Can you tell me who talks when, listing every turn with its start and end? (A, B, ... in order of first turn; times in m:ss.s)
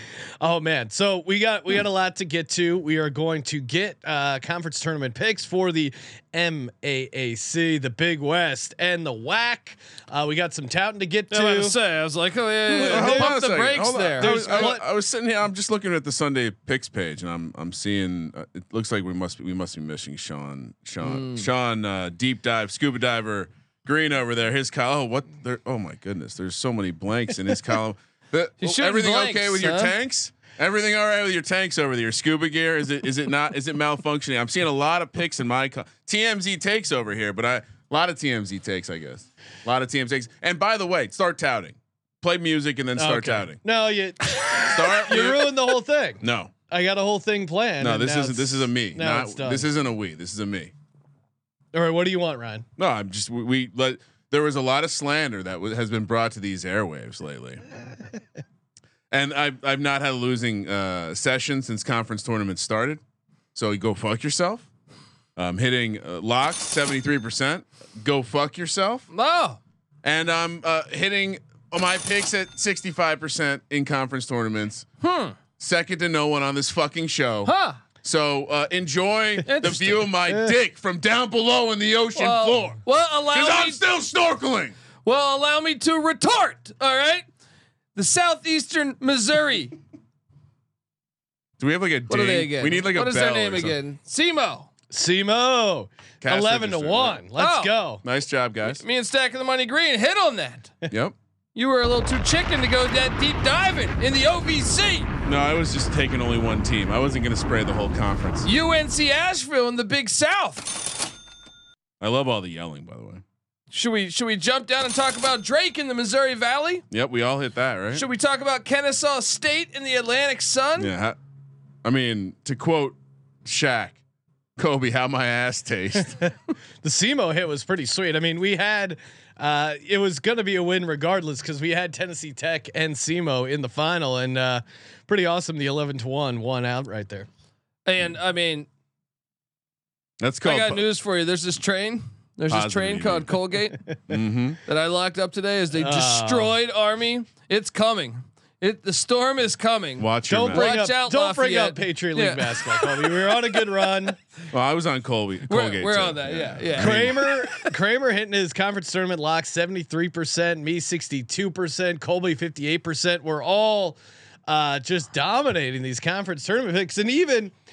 0:00.4-0:11.7 A
0:11.3-0:14.7 B
0:12.7-0:43.6 C
0:12.7-0:13.4 A
0:14.2-0:14.8 A
0:21.0-0:21.5 B
0:28.6-0:29.9 B
0:43.0-0:49.6 A
0:44.4-0:46.5 C
0:47.8-0:50.7 C
0:51.7-0:52.6 A
0:52.8-0:57.6 C
0:59.1-1:03.0 C
1:03.5-1:04.7 C
1:05.4-1:09.1 C
1:09.1-1:09.6 B
1:10.0-1:14.8 C
1:15.0-1:15.4 B
1:15.6-1:24.8 C
1:17.4-1:17.8 B
1:19.4-1:20.1 B
1:22.1-1:23.8 B
1:25.0-1:27.2 B
1:27.9-1:29.8 B
1:31.6-1:33.8 C
1:32.1-1:34.7 B
1:34.9-1:38.0 A
1:36.2-1:37.2 C
1:37.4-1:37.7 B
1:38.0-1:38.8 C
1:38.6-1:40.8 B
1:40.9-1:41.2 C
1:41.5-1:45.1 B
1:45.2-1:48.5 C
1:48.4-1:50.8 B
1:52.0-1:53.2 C
1:53.7-1:56.8 B
1:56.9-1:58.0 C
1:57.9-2:00.9 B
2:00.8-2:01.2 C
2:01.8-2:04.0 C
2:04.6-2:06.2 C
2:06.8-2:17.3 A
2:17.8-2:18.7 B
2:20.2-2:20.8 C
2:20.4-2:24.0 B
2:22.5-2:23.4 C
2:24.1-2:24.6 C
2:24.6-2:33.6 B
2:25.7-2:26.5 A
2:30.0-2:30.7 C
2:30.3-2:34.2 A
2:34.5-2:37.3 C
2:35.5-2:37.7 B
2:36.8-2:47.5 A